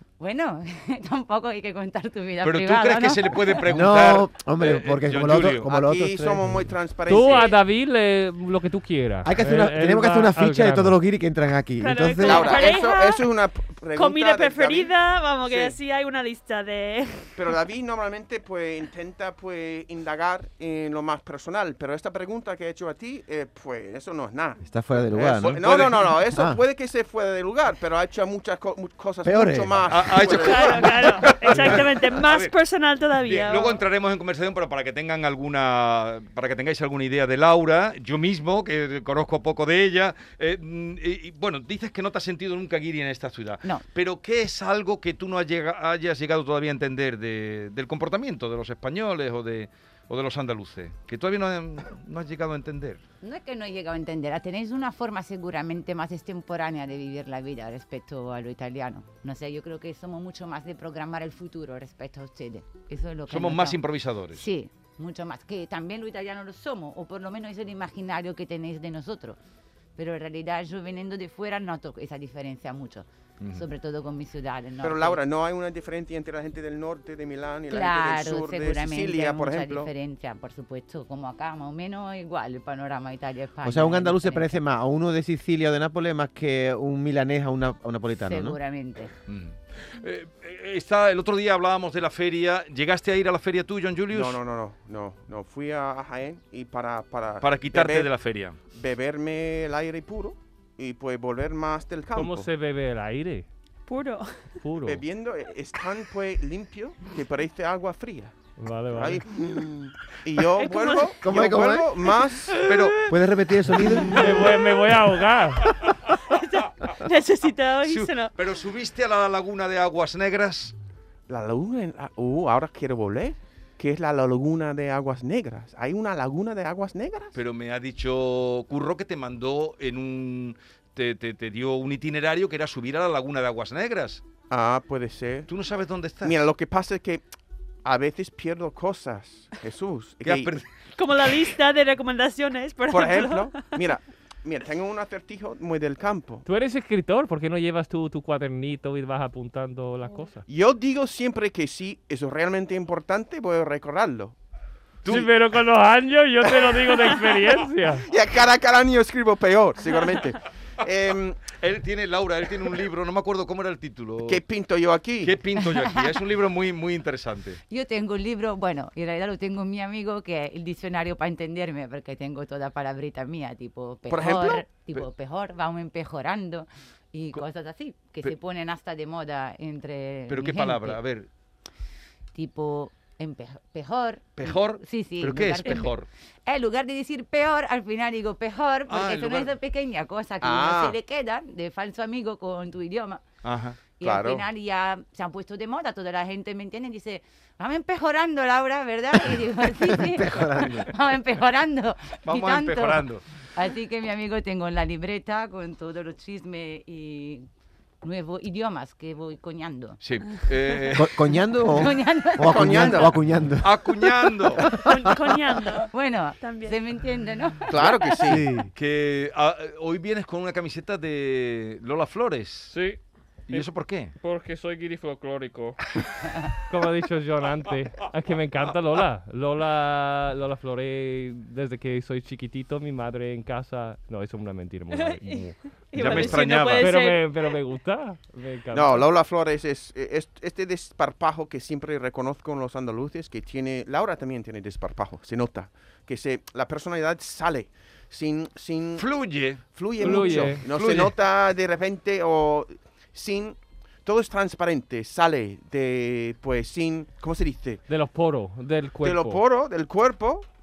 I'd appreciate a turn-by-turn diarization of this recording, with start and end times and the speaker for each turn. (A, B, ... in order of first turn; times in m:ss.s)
0:00.2-0:03.7 A
0:02.4-0:05.6 B
0:03.7-0:06.6 C
0:05.6-0:07.5 D
0:07.1-0:11.0 E
0:07.2-0:07.5 F
0:09.2-0:12.6 C
0:11.8-0:13.2 F
0:12.2-0:15.7 D
0:13.9-0:17.4 F
0:17.4-0:31.4 D
0:24.6-0:26.6 C
0:25.4-0:26.2 B
0:29.2-0:29.9 C
0:29.9-0:32.5 B
0:30.3-0:33.8 F
0:33.2-0:53.0 B
0:53.2-1:03.8 A
1:03.3-1:04.4 B
1:04.3-1:09.4 A
1:10.0-1:15.2 A
1:14.8-1:19.9 D
1:17.7-1:24.5 A
1:23.6-1:28.6 C
1:28.2-1:29.1 A
1:29.3-1:34.4 B
1:34.1-1:38.1 D
1:37.4-1:38.6 B
1:38.7-1:42.5 D
1:42.1-1:43.5 E
1:43.9-1:44.4 F
1:44.6-1:45.0 E
1:44.8-1:48.3 D
1:48.6-1:49.2 E
1:48.9-1:52.6 D
1:50.6-1:51.2 F
1:51.2-1:51.9 C
1:52.6-1:53.0 B
1:53.1-1:54.1 C
1:54.0-1:55.8 E
1:56.3-1:58.3 F
1:57.8-2:00.7 B
2:01.3-2:07.4 D
2:07.3-2:14.2 B
2:14.5-2:15.5 D
2:15.5-2:16.4 B
2:16.2-2:17.2 D
2:17.8-2:20.5 D
2:20.2-2:20.6 B
2:21.0-2:23.8 F
2:22.9-2:26.4 D
2:26.4-2:30.4 E
2:30.5-2:34.4 D
2:35.0-2:35.3 B
2:35.0-2:38.0 E
2:38.0-2:41.4 D
2:41.5-2:44.4 B
2:44.2-2:45.4 D
2:45.2-2:47.6 B
2:45.6-2:46.2 A
2:47.7-3:01.0 A
2:54.1-2:54.6 D
3:00.3-3:01.3 B
3:02.3-3:05.9 A
3:04.4-3:06.1 B
3:06.4-3:13.2 A
3:08.9-3:09.5 B
3:10.4-3:11.0 D
3:13.4-3:13.8 B
3:14.0-3:27.4 A
3:14.0-3:14.4 D
3:19.7-3:20.9 C
3:22.2-3:23.2 B
3:28.0-3:30.0 A
3:30.0-3:31.2 B
3:30.9-3:35.2 C
3:31.6-3:33.1 A
3:32.4-3:33.1 D
3:33.6-3:34.6 B
3:34.7-3:36.8 F
3:35.8-3:38.3 A
3:37.7-3:38.4 D
3:38.2-3:38.7 C
3:38.7-3:42.7 B
3:42.7-3:43.7 E
3:43.5-3:44.1 B
3:44.2-3:45.8 E
3:46.6-3:59.1 E
3:54.9-3:57.6 F
3:56.0-3:57.0 B
3:58.7-4:17.8 D
4:09.0-4:11.1 B
4:10.0-4:10.6 E
4:17.9-4:19.4 E
4:19.0-4:20.4 D